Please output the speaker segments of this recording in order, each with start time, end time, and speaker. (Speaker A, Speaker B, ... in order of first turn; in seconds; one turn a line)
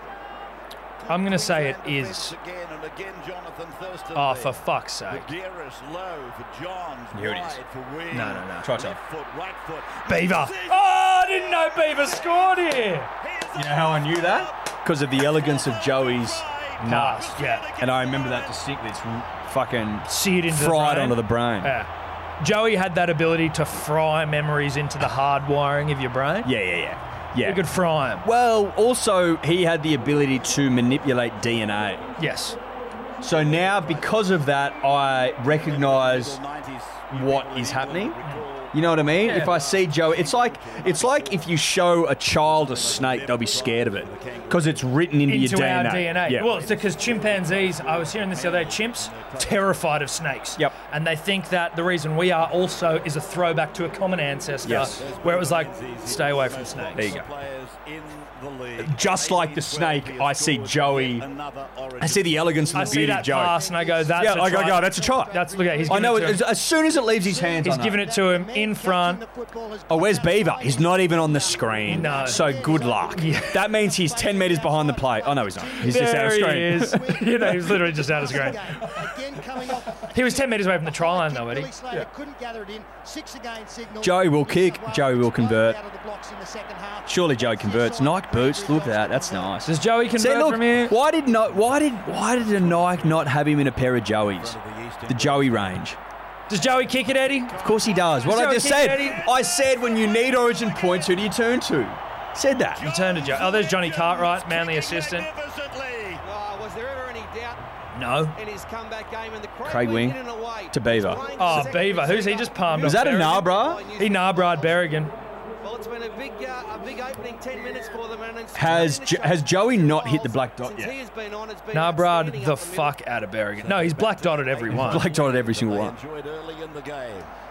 Speaker A: 1.0-14.6
Speaker B: 1.1-2.4
Speaker B: 4.1-5.3
Speaker C: 7.1-7.6
Speaker B: 8.1-8.9
Speaker C: 8.6-9.0
Speaker B: 10.1-13.1
Speaker C: 13.5-21.8
Speaker A: 15.1-18.7
Speaker B: 16.8-17.7
Speaker B: 20.1-26.5
Speaker C: 26.4-27.7
Speaker B: 27.4-28.3
Speaker C: 28.2-32.1
Speaker B: 32.2-32.6
Speaker C: 33.2-36.4
Speaker A: 33.5-34.3
Speaker A: 35.5-41.6
Speaker C: 37.1-38.2
Speaker C: 38.7-46.5
Speaker B: 39.2-39.6
Speaker A: 42.4-45.0
Speaker B: 45.3-57.2
Speaker A: 46.2-49.8
Speaker C: 54.6-55.0
Speaker A: 55.0-63.4
Speaker C: 57.0-57.3
Speaker C: 58.8-61.3
Speaker C: 62.0-63.6
Speaker B: 62.7-66.5
Speaker D: 63.4-89.6
Speaker C: 64.2-68.0
Speaker B: 67.6-69.2
Speaker C: 69.9-77.6
Speaker B: 71.9-72.5
Speaker B: 73.1-73.6
Speaker B: 75.8-78.9
Speaker B: 80.0-82.0
Speaker C: 84.0-85.8
Speaker C: 87.1-96.0
Speaker B: 89.6-91.0
Speaker A: 91.1-93.4
Speaker A: 94.3-95.8
Speaker B: 96.5-97.6
Speaker A: 96.5-101.4
Speaker C: 97.6-102.9
Speaker B: 98.2-99.3
Speaker A: 102.7-106.2
Speaker B: 102.8-105.3
Speaker E: 106.2-107.6
Speaker B: 107.9-108.4
Speaker E: 108.3-114.9
Speaker C: 109.6-110.2
Speaker C: 110.7-111.3
Speaker B: 111.4-115.1
Speaker D: 111.5-112.5
Speaker C: 112.8-113.8
Speaker E: 115.6-123.0
Speaker C: 118.5-121.0
Speaker B: 121.7-125.1
Speaker A: 123.6-127.3
Speaker C: 124.7-126.0